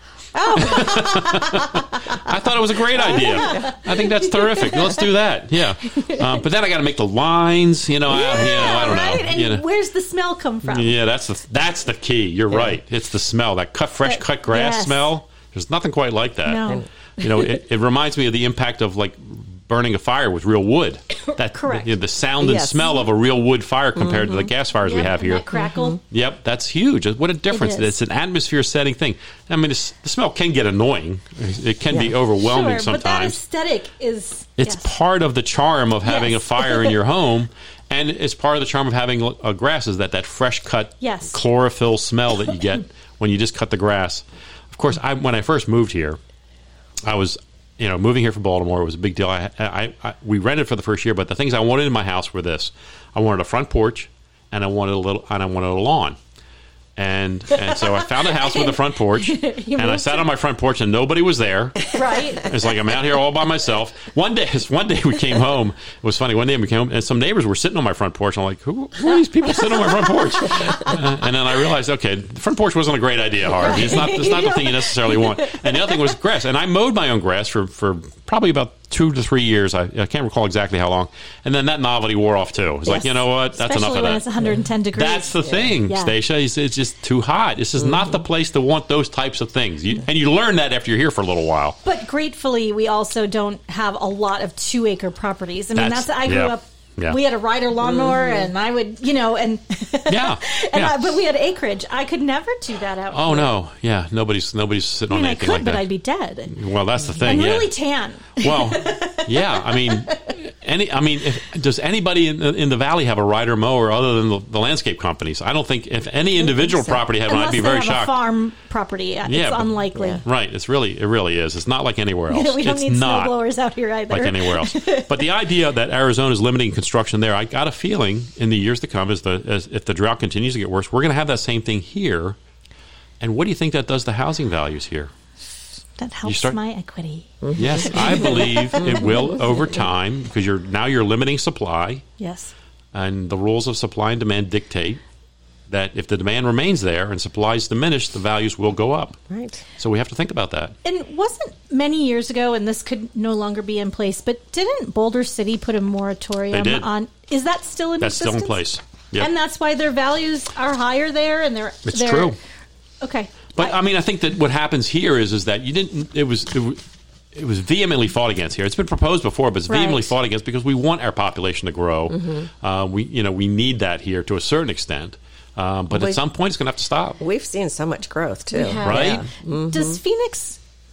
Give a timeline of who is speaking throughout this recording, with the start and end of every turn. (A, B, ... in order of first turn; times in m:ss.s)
0:00.4-0:01.7 A
0:00.6-0:09.6 B
0:00.6-0:01.2 C
0:03.0-0:04.8 A
0:03.2-0:03.7 C
0:08.1-0:11.0 A
0:10.7-0:25.5 B
0:12.5-0:12.8 C
0:14.0-0:15.1 A
0:16.4-0:16.9 A
0:16.7-0:17.5 C
0:21.3-0:21.9 A
0:22.4-0:22.9 C
0:24.0-0:24.4 C
0:24.8-0:26.0 A
0:25.5-0:26.0 C
0:26.1-0:33.4 B
0:27.5-0:27.9 A
0:32.4-0:34.9 A
0:34.6-0:46.2 B
0:36.0-0:36.9 A
0:41.0-0:41.3 A
0:47.0-0:56.2 B
0:57.0-1:24.2 B
0:57.7-1:00.3 A
1:01.9-1:02.5 A
1:13.7-1:14.8 A
1:22.8-1:26.2 A
1:24.9-1:31.8 B
1:31.8-1:43.5 A
1:35.8-1:37.2 B
1:38.0-1:38.2 C
1:40.1-1:41.1 B
1:43.1-1:45.8 B
1:45.1-1:46.5 A
1:46.5-1:47.7 B
1:47.2-1:50.3 A
1:48.4-1:58.2 B
1:56.4-1:57.0 C
1:57.3-2:00.2 A
1:59.3-2:03.4 B
2:00.0-2:00.2 C
2:02.3-2:05.2 A
2:04.1-2:12.4 B
2:13.2-2:15.1 B
2:16.0-2:17.3 A
2:16.2-2:16.6 B
2:17.6-2:22.0 B
2:17.8-2:18.8 A
2:22.2-2:22.5 A
2:22.9-2:25.0 B
2:25.7-2:29.2 B
2:29.3-2:29.6 C
2:29.8-2:30.8 B
2:30.8-2:38.6 A
2:36.5-2:36.9 B
2:38.0-2:39.3 B
2:39.2-2:42.4 A
2:41.9-2:42.4 B
2:43.0-2:43.8 A
2:43.5-2:46.8 B
2:47.4-2:57.2 B
2:49.7-2:50.1 A
2:55.9-2:56.2 C
2:57.2-3:00.0 C
2:58.5-3:00.6 A
2:58.8-2:59.2 B